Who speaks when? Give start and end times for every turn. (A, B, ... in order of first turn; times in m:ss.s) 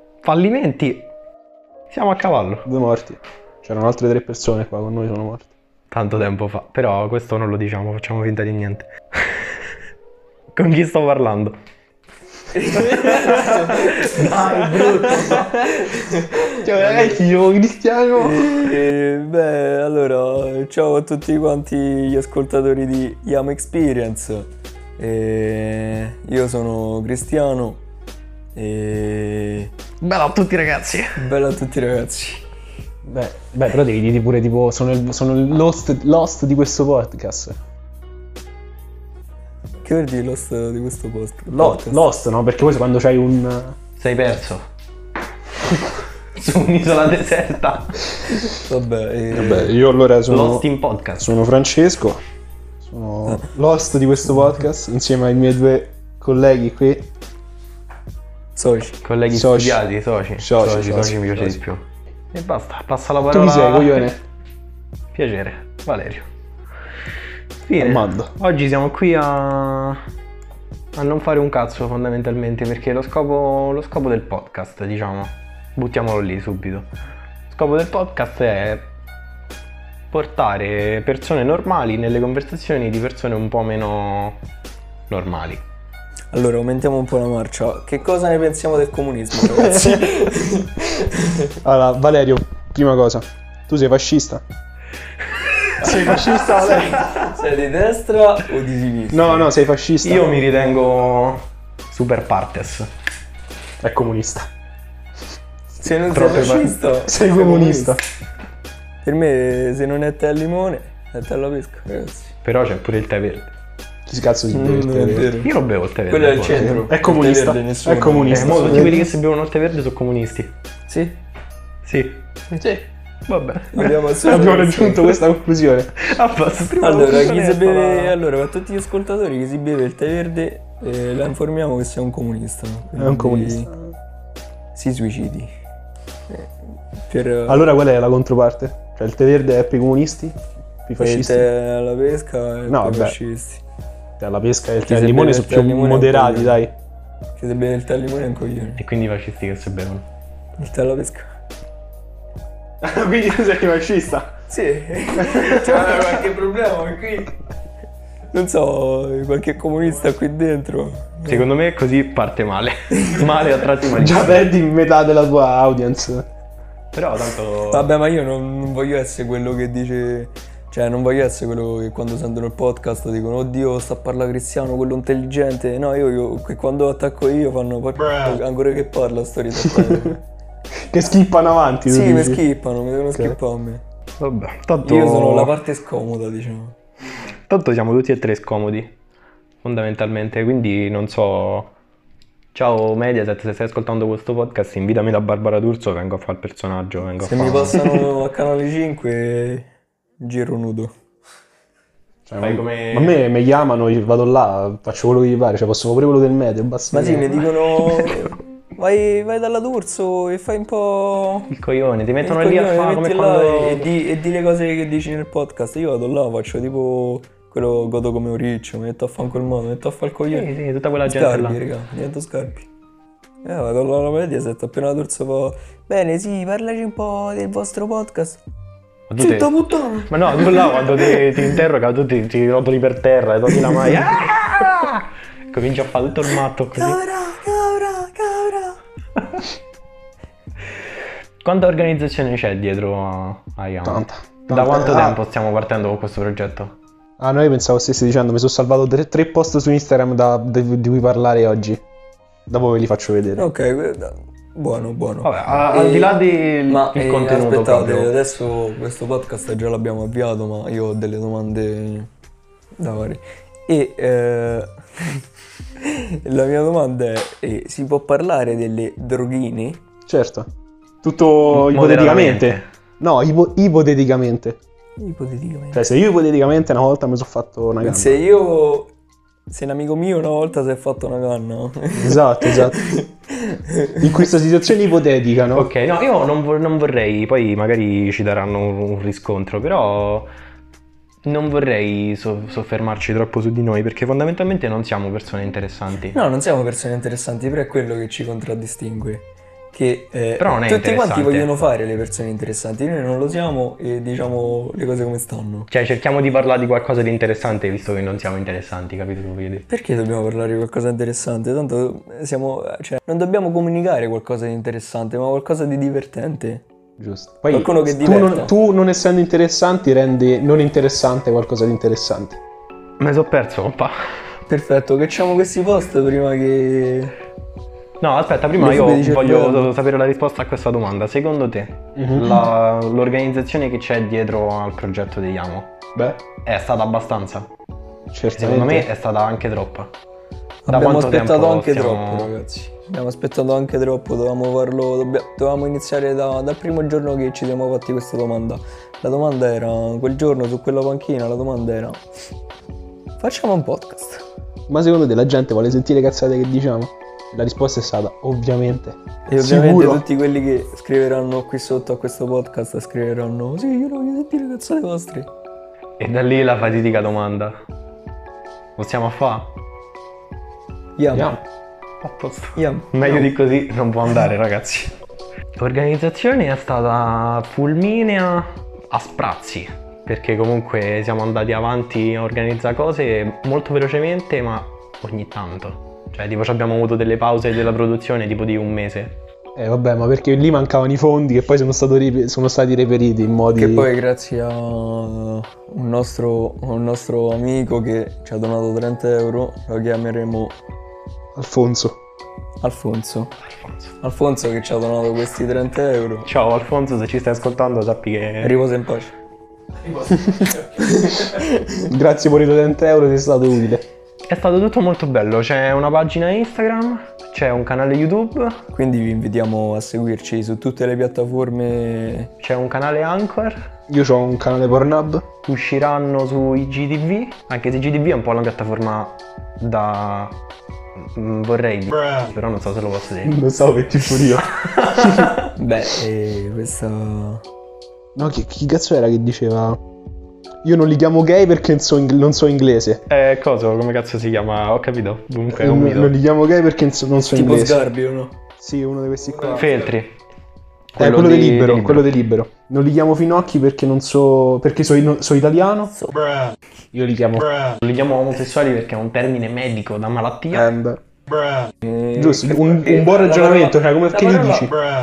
0:00.2-0:01.1 A
0:01.9-0:02.7 A
0:02.6-0:05.5 B
0:05.9-0:09.5 A
0:10.6-0:11.5 A
0:12.5-0:17.2 C
0:12.8-0:15.6 A
0:16.5-0:18.8 B
0:18.2-0:27.8 C
0:28.5-0:29.7 C
0:30.0-0:31.2 A
0:31.2-0:32.4 C
0:33.0-0:37.5 B
0:39.8-0:42.0 C
0:41.5-0:43.7 B
0:44.0-0:44.6 A
0:46.3-0:48.0 A
0:48.5-0:49.7 C
0:49.3-0:52.2 B
0:50.3-0:51.3 A
0:52.8-0:57.1 B
0:58.6-0:59.0 C
0:59.0-1:04.1 A
0:59.3-0:59.8 B
1:00.4-1:01.6 B
1:03.3-1:04.2 B
1:05.1-1:06.2 A
1:07.6-1:10.0 A
1:07.8-1:08.3 B
1:11.0-1:16.9 A
1:17.5-1:18.9 A
1:20.1-1:24.4 A
1:25.1-1:25.6 A
1:26.3-1:31.5 C
1:29.6-1:30.1 B
1:31.6-1:34.4 B
1:35.8-1:37.0 B
1:35.8-1:37.2 A
1:36.5-1:39.5 C
1:39.1-1:40.3 B
1:40.0-1:42.9 A
1:43.8-1:44.5 B
1:45.8-1:48.0 C
1:46.1-1:46.8 A
1:47.0-1:48.0 B
1:49.0-1:52.3 C
1:52.4-1:53.5 A
1:54.1-1:55.4 B
1:54.5-1:55.6 C
1:55.4-1:56.7 A
1:56.1-1:59.0 C
1:56.5-1:59.1 B
1:58.3-2:00.5 A
2:00.9-2:01.2 C
2:01.8-2:02.2 A
2:03.3-2:04.1 A
2:03.7-2:05.2 C
2:04.2-2:06.1 B
2:06.0-2:08.2 A
2:06.8-2:13.7 C
2:12.9-2:13.9 B
2:14.7-2:15.5 C
2:17.0-2:17.7 C
2:17.5-2:20.4 B
2:20.9-2:21.5 B
2:21.0-2:23.6 C
2:22.7-2:23.2 B
2:24.2-2:26.7 B
2:24.8-2:26.6 C
2:27.4-2:28.8 C
2:28.8-2:30.0 A
2:30.6-2:31.2 C
2:32.8-2:34.3 B
2:34.5-2:37.3 C
2:35.5-2:35.8 A
2:38.3-2:41.5 C
2:41.2-2:44.5 A
2:42.9-2:43.3 C
2:43.8-2:46.2 B
2:46.9-2:47.9 A
2:47.7-3:00.2 C
2:59.6-3:00.0 B
3:00.7-3:02.4 B
3:01.8-3:03.8 C
3:04.2-3:05.6 A
3:04.8-3:06.8 C
3:07.5-3:08.9 A
3:09.6-3:11.7 A
3:12.5-3:17.9 A
3:17.2-3:19.7 C
3:20.2-3:20.9 C
3:22.3-3:27.4 B
3:22.4-3:23.2 A
3:26.9-3:31.5 C
3:31.5-3:33.9 A
3:32.2-3:40.5 C
3:40.3-3:41.6 A
3:41.0-3:42.7 C
3:43.4-3:48.4 C
3:49.1-3:49.5 A
3:49.2-3:51.6 C
3:50.1-3:57.0 A
3:56.7-3:58.8 C
4:01.4-4:06.7 A
4:03.8-4:05.2 B
4:07.2-4:11.8 B
4:12.5-4:13.4 B
4:13.4-4:16.2 C
4:15.2-4:18.2 A
4:16.7-4:22.1 C
4:22.8-4:25.2 C
4:25.8-4:29.8 C
4:30.0-4:30.4 B
4:31.0-4:34.6 B
4:31.5-4:32.6 A
4:35.0-4:35.8 C
4:35.7-4:38.2 B
4:37.8-4:38.9 C
4:39.5-4:44.0 C
4:41.9-4:42.8 B
4:44.0-4:45.7 B
4:45.5-4:50.3 A
4:51.2-4:56.2 A
4:56.1-5:05.7 C
5:00.4-5:01.6 A
5:05.7-5:09.6 A
5:09.7-5:16.6 C
5:17.0-5:22.4 B
5:17.5-5:18.5 C
5:23.0-5:23.9 A
5:24.5-5:27.1 C
5:28.0-5:35.7 A
5:28.5-5:29.7 C
5:32.0-5:32.5 B
5:35.9-5:36.2 B
5:36.4-5:37.5 A
5:38.1-5:38.9 B
5:38.4-5:39.9 A
5:40.6-5:52.0 C
5:40.7-5:42.3 A
5:53.2-5:54.2 C
5:54.7-6:00.0 B
5:59.3-6:05.3 C
6:06.0-6:07.5 A
6:08.8-6:09.5 A
6:11.0-6:11.4 C
6:11.1-6:11.4 B
6:12.0-6:14.9 A
6:12.6-6:13.3 C
6:15.6-6:29.1 A
6:29.6-6:33.9 B
6:33.5-6:40.5 C
6:41.4-6:42.0 B
6:42.6-6:43.3 C
6:43.6-6:43.9 A
6:44.0-6:46.3 C
6:46.2-6:48.6 A
6:48.4-6:49.1 C
6:49.9-6:50.2 A
6:50.1-6:50.5 B
6:50.7-6:51.9 C
6:51.9-6:53.8 B
6:54.3-6:58.6 A
6:58.7-7:02.3 C
7:02.4-7:03.6 A
7:03.9-7:05.2 B
7:05.4-7:10.4 A
7:11.1-7:13.3 A
7:13.2-7:15.4 B
7:14.6-7:15.5 A
7:15.6-7:17.4 C
7:18.2-7:19.8 B
7:20.6-7:23.0 B
7:23.1-7:26.1 A
7:25.5-7:27.8 B
7:27.3-7:28.3 C
7:28.6-7:29.7 B
7:29.2-7:29.9 C
7:29.5-7:30.1 A
7:30.9-7:32.1 A
7:31.0-7:35.9 B
7:36.9-7:37.5 B
7:37.8-7:40.7 A
7:40.5-7:41.0 B
7:41.8-7:44.7 C
7:42.2-7:44.8 B